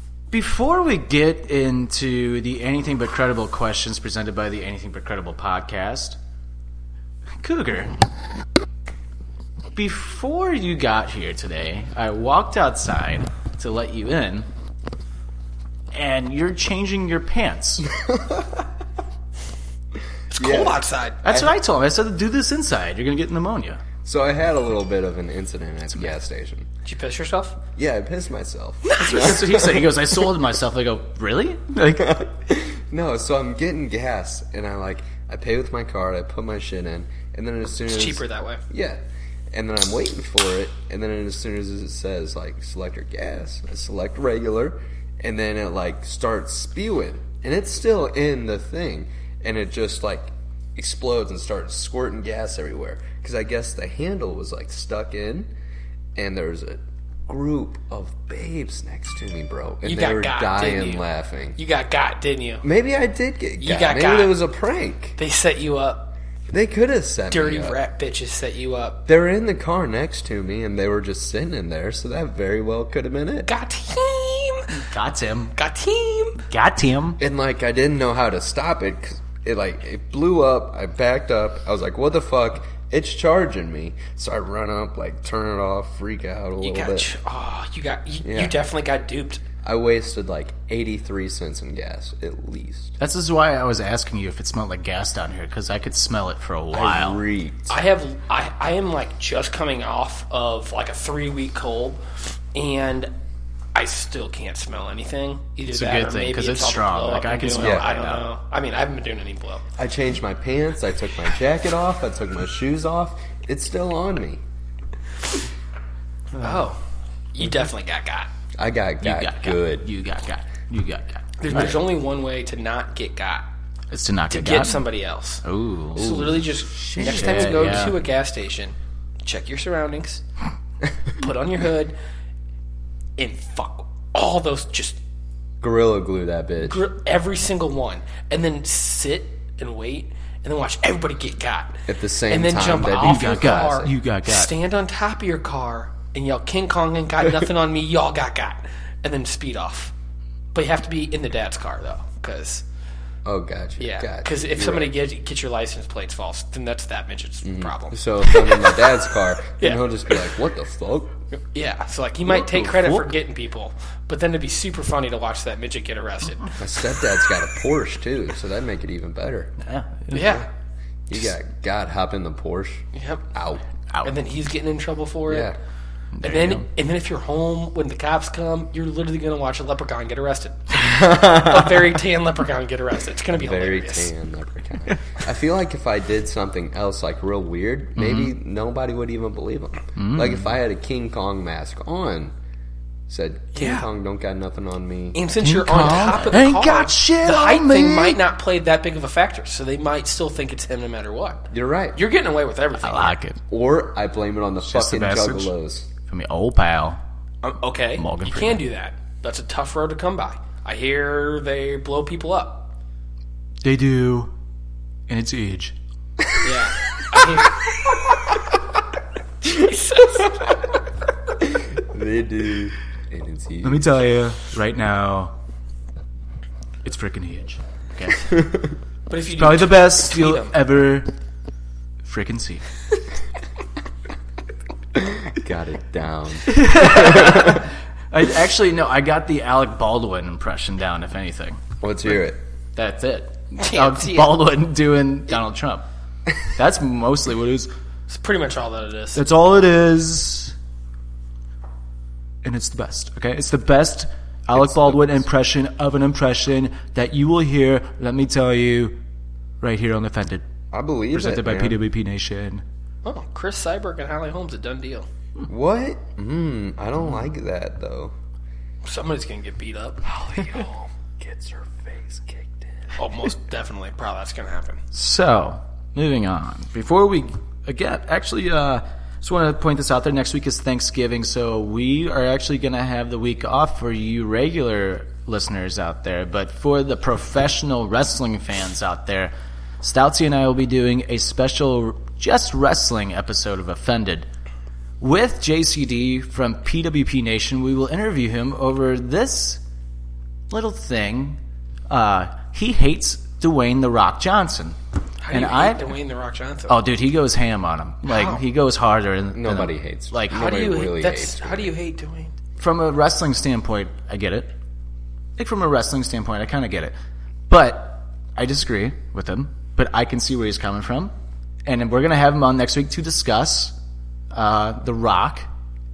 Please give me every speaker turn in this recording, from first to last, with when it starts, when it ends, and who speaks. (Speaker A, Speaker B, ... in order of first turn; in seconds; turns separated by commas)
Speaker A: 0.3-6.2, Speaker A: 7.4-7.9, Speaker A: 9.8-14.5, Speaker A: 15.9-17.9, Speaker B: 18.0-18.6, Speaker C: 20.3-21.2, Speaker B: 20.4-21.6, Speaker A: 21.2-23.8, Speaker B: 24.0-26.7, Speaker C: 26.9-27.6, Speaker B: 27.8-30.1, Speaker C: 28.9-29.3, Speaker A: 29.0-32.3, Speaker B: 32.0-55.5, Speaker C: 37.9-38.6, Speaker B: 56.2-61.6, Speaker C: 59.8-61.1, Speaker C: 61.6-62.6, Speaker B: 62.6-65.2, Speaker C: 63.6-64.4, Speaker C: 65.2-66.1, Speaker B: 66.5-67.8, Speaker C: 67.3-69.0, Speaker B: 69.1-73.5, Speaker C: 73.5-74.8, Speaker A: 74.7-75.6, Speaker C: 75.6-76.4, Speaker A: 76.4-77.2, Speaker B: 77.2-87.1, Speaker C: 86.6-89.4, Speaker B: 88.2-88.6, Speaker B: 89.6-93.0, Speaker A: 93.0-97.2, Speaker B: 96.7-97.8, Speaker C: 97.7-102.0, Speaker C: 102.5-103.1, Speaker C: 103.8-109.6, Speaker A: 105.7-108.3, Speaker B: 107.6-107.9, Speaker B: 109.8-114.4, Speaker C: 116.4-116.8, Speaker C: 117.3-118.3, Speaker B: 118.6-119.9, Speaker A: 119.0-121.8, Speaker C: 121.4-123.5, Speaker A: 123.9-124.8, Speaker C: 124.3-125.4, Speaker A: 125.4-126.2, Speaker C: 126.0-130.2, Speaker B: 126.0-127.9, Speaker A: 127.0-128.0, Speaker C: 131.2-131.9, Speaker C: 133.2-135.0, Speaker B: 135.6-136.8, Speaker C: 136.6-149.9, Speaker B: 141.9-143.9, Speaker A: 143.0-144.5, Speaker C: 150.5-152.6, Speaker B: 153.2-154.9, Speaker C: 153.8-158.9, Speaker B: 157.4-161.2, Speaker C: 159.6-160.2, Speaker C: 161.5-166.6, Speaker A: 162.3-163.1, Speaker B: 166.6-169.5, Speaker A: 169.6-170.4, Speaker C: 170.1-170.5, Speaker B: 170.2-170.4, Speaker B: 171.1-173.6, Speaker C: 172.9-173.2, Speaker A: 173.9-174.2, Speaker C: 174.0-175.5, Speaker B: 175.3-175.6, Speaker A: 176.2-176.7, Speaker C: 176.2-184.1, Speaker B: 180.8-181.9, Speaker B: 183.3-192.3, Speaker A: 188.0-188.3, Speaker A: 190.0-190.5, Speaker B: 193.1-195.2, Speaker C: 193.6-193.9, Speaker C: 195.1-203.2, Speaker A: 195.4-198.2, Speaker B: 201.5-202.0, Speaker A: 202.8-203.4, Speaker B: 203.5-205.9, Speaker A: 204.6-205.5, Speaker A: 206.1-207.0, Speaker C: 207.4-212.7, Speaker A: 208.0-208.6, Speaker A: 213.6-214.3, Speaker A: 215.1-215.8, Speaker C: 216.4-217.7, Speaker C: 219.4-220.6, Speaker B: 221.4-223.9, Speaker A: 223.6-225.3, Speaker A: 226.8-228.3, Speaker B: 228.3-228.7, Speaker C: 229.1-230.6, Speaker A: 229.3-231.1, Speaker A: 232.0-232.6, Speaker B: 235.0-237.6, Speaker A: 236.5-241.6, Speaker B: 241.8-242.4, Speaker A: 242.8-245.9, Speaker C: 243.6-244.4, Speaker A: 246.5-247.7, Speaker C: 248.1-249.2, Speaker A: 249.2-250.6, Speaker A: 252.4-259.0, Speaker B: 254.6-255.2, Speaker A: 259.6-260.4, Speaker B: 260.7-261.8, Speaker A: 261.1-262.6, Speaker C: 263.0-265.1, Speaker B: 265.5-268.1, Speaker C: 268.8-270.1, Speaker B: 270.1-272.9, Speaker C: 273.0-274.8, Speaker A: 274.9-294.3, Speaker A: 295.0-299.6, Speaker A: 300.5-304.8, Speaker C: 305.2-306.8, Speaker A: 305.3-305.9, Speaker A: 306.7-310.4, Speaker C: 308.1-308.4, Speaker B: 309.3-311.7, Speaker C: 310.3-312.3, Speaker A: 312.6-314.5, Speaker A: 315.4-316.9, Speaker A: 317.5-321.1, Speaker A: 321.7-323.8, Speaker A: 324.3-325.5